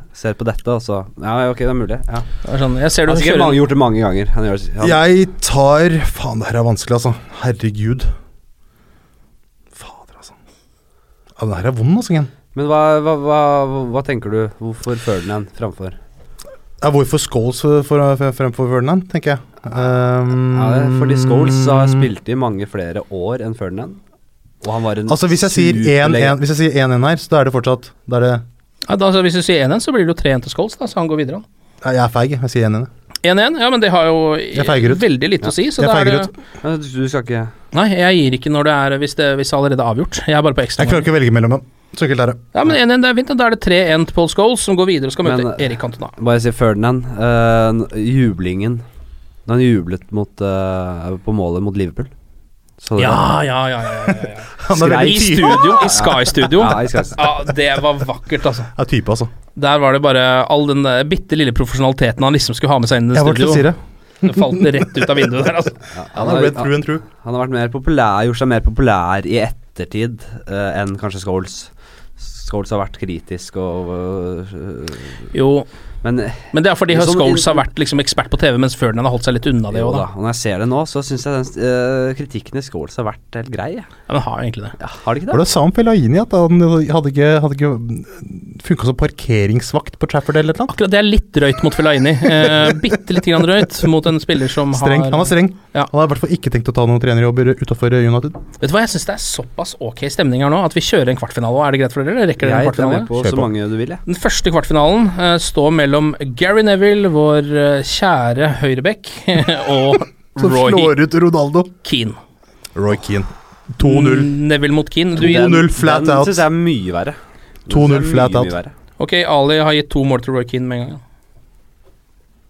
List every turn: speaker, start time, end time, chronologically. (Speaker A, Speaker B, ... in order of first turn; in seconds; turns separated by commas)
Speaker A: 0.1-2.3, Speaker B: 2.5-3.6, Speaker A: 3.1-5.0, Speaker C: 4.8-8.1, Speaker C: 9.8-10.4, Speaker C: 11.4-12.3, Speaker A: 12.5-16.0, Speaker C: 16.8-22.1, Speaker A: 20.5-24.0, Speaker A: 24.6-26.4, Speaker C: 25.1-28.4, Speaker B: 28.9-31.4, Speaker C: 31.8-32.9, Speaker B: 33.2-36.3, Speaker C: 34.5-35.0, Speaker C: 35.8-36.3, Speaker A: 36.6-37.5, Speaker B: 37.7-41.1, Speaker C: 40.8-42.4, Speaker B: 42.5-46.1, Speaker A: 45.2-48.8, Speaker A: 49.5-52.1, Speaker A: 52.8-53.3, Speaker B: 53.0-58.7, Speaker C: 54.6-56.0, Speaker A: 54.7-57.2, Speaker C: 58.8-59.3, Speaker B: 59.6-63.7, Speaker C: 63.1-65.1, Speaker B: 64.2-65.8, Speaker A: 66.0-75.3, Speaker C: 66.2-67.0, Speaker B: 75.3-75.7, Speaker A: 76.0-77.7, Speaker B: 76.5-80.0, Speaker A: 79.7-83.9, Speaker B: 84.1-84.8, Speaker A: 84.8-85.5, Speaker C: 85.3-90.7, Speaker B: 90.7-95.9, Speaker C: 92.4-92.8, Speaker C: 94.7-98.4, Speaker B: 98.6-103.1, Speaker A: 102.4-104.0, Speaker C: 103.2-103.5, Speaker B: 104.1-111.0, Speaker C: 110.4-111.7, Speaker B: 111.8-112.2, Speaker C: 112.8-114.3, Speaker B: 113.8-115.6, Speaker C: 115.2-116.5, Speaker A: 115.2-118.7, Speaker C: 117.7-118.5, Speaker B: 119.0-121.0